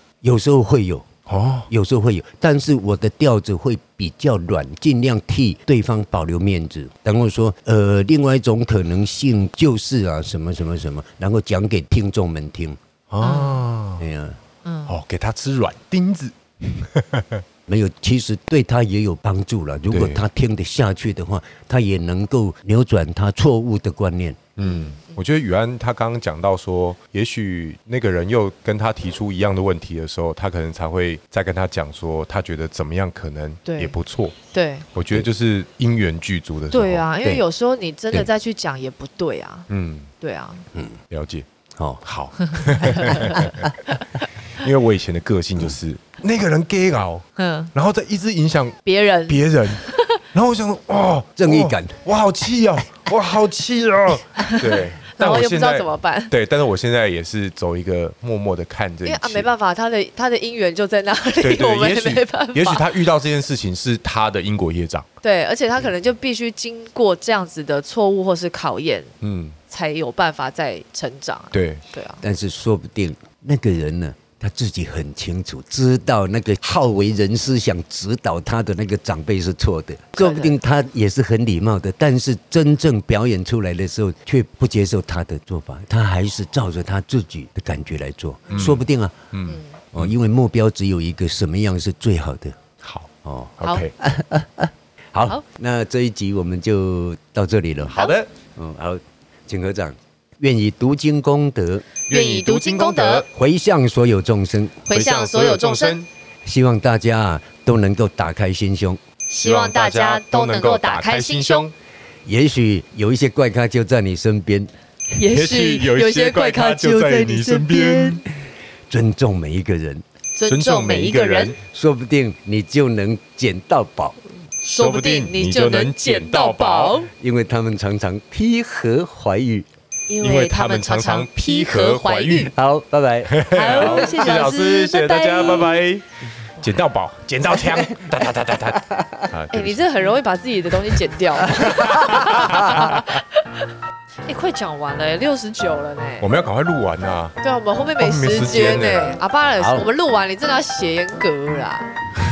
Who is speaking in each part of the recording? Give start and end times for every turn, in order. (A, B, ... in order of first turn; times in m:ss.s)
0:00.2-0:01.1 A
0:01.3-0:01.7 B
0:01.7-0:12.8 A
0:13.1-0:14.0 B
0:13.2-0:13.6 C
0:14.0-0:14.4 A
0:14.6-0:15.0 C
0:14.9-0:17.4 B
0:17.7-0:24.4 A
0:19.9-0:20.2 B
0:24.6-0:34.4 B
0:24.6-0:25.2 C
0:33.6-0:33.9 C
0:34.5-0:34.8 C
0:34.9-0:37.0 B
0:36.7-0:39.7 C
0:39.7-0:40.1 B
0:40.2-0:40.7 C
0:41.1-0:41.4 B
0:41.8-0:42.0 A
0:42.0-0:43.7 B
0:42.5-0:44.7 C
0:43.0-0:43.5 A
0:44.5-0:59.5 B
0:47.4-0:47.7 C
0:48.8-0:50.2 C
0:51.4-0:52.0 A
0:54.4-0:56.3 C
0:59.0-1:03.0 C
1:01.4-1:05.1 B
1:05.2-1:09.1 C
1:09.2-1:09.6 B
1:09.7-1:12.2 C
1:11.5-1:11.8 B
1:12.2-1:29.2 A
1:20.2-1:20.6 C
1:28.5-1:28.8 C
1:28.5-1:30.1 B
1:29.5-1:29.8 C
1:29.9-1:32.6 A
1:32.8-1:33.9 B
1:33.2-1:41.9 A
1:33.6-1:33.9 C
1:37.9-1:38.3 B
1:37.9-1:38.2 C
1:42.1-1:43.3 B
1:42.1-1:43.2 C
1:43.3-1:44.8 A
1:44.9-1:46.0 C
1:44.9-1:46.1 B
1:46.4-1:49.0 A
1:49.3-1:51.7 C
1:49.4-1:51.7 B
1:52.2-1:54.7 A
1:55.1-1:58.2 C
1:55.2-1:58.2 B
1:58.9-2:00.0 A
2:00.3-2:01.5 C
2:00.5-2:01.6 B
2:01.6-2:04.2 A
2:04.6-2:07.0 B
2:04.7-2:07.1 C
2:07.2-2:09.7 A
2:10.1-2:12.5 C
2:10.2-2:12.5 B
2:12.5-2:14.0 A
2:13.2-2:19.9 B
2:13.4-2:15.9 C
2:19.5-2:23.7 C
2:21.5-2:23.2 B
2:21.6-2:22.8 A
2:24.2-2:26.3 C
2:26.2-2:27.4 B
2:27.4-2:31.9 C
2:28.0-2:29.2 B
2:29.6-2:29.8 A